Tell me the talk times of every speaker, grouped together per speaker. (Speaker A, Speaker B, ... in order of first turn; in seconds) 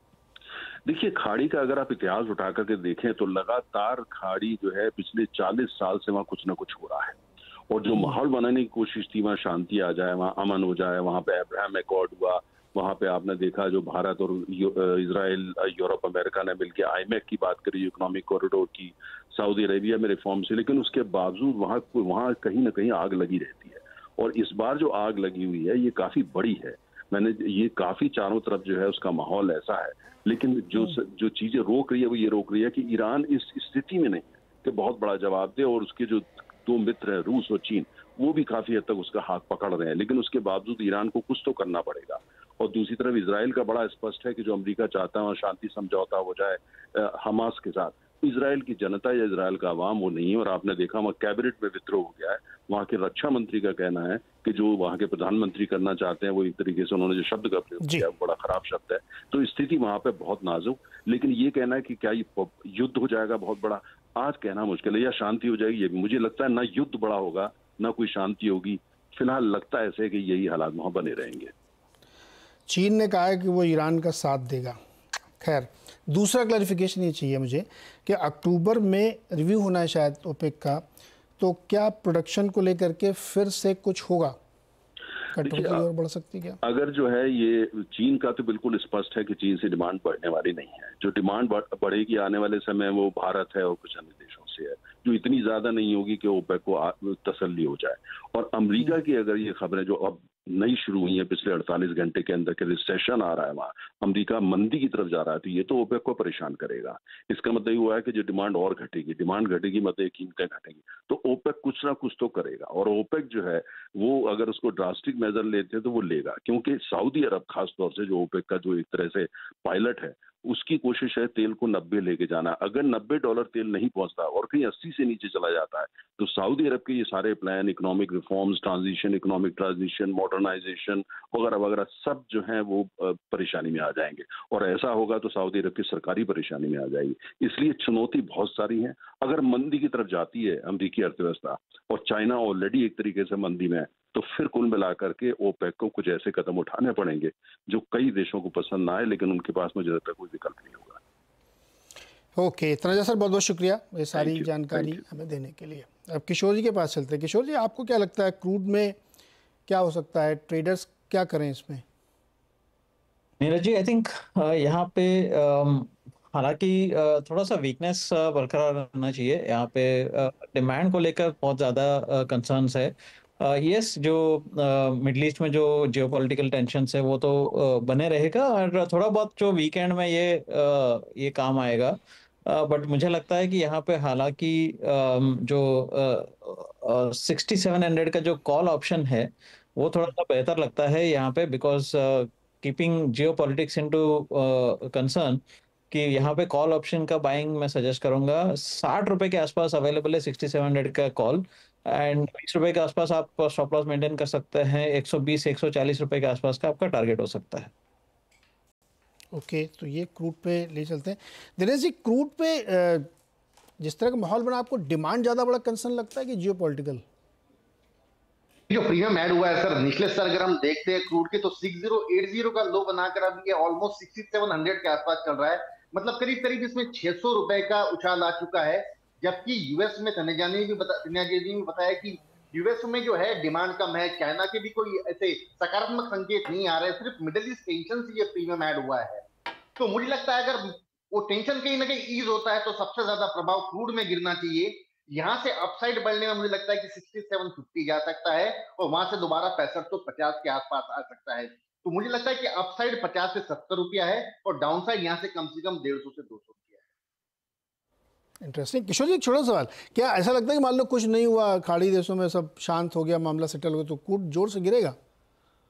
Speaker A: 0.8-7.2, 7.7-71.5, 85.4-85.8, 86.6-151.0, 154.1-155.0
Speaker B: 57.8-58.1, 72.7-74.8, 75.4-80.8, 81.4-84.3, 85.3-86.6, 152.4-159.0, 159.7-161.8, 209.3-213.1, 213.8-217.0, 258.4-264.9
Speaker C: 163.4-181.9, 182.5-207.7
Speaker D: 218.7-239.2, 239.8-256.8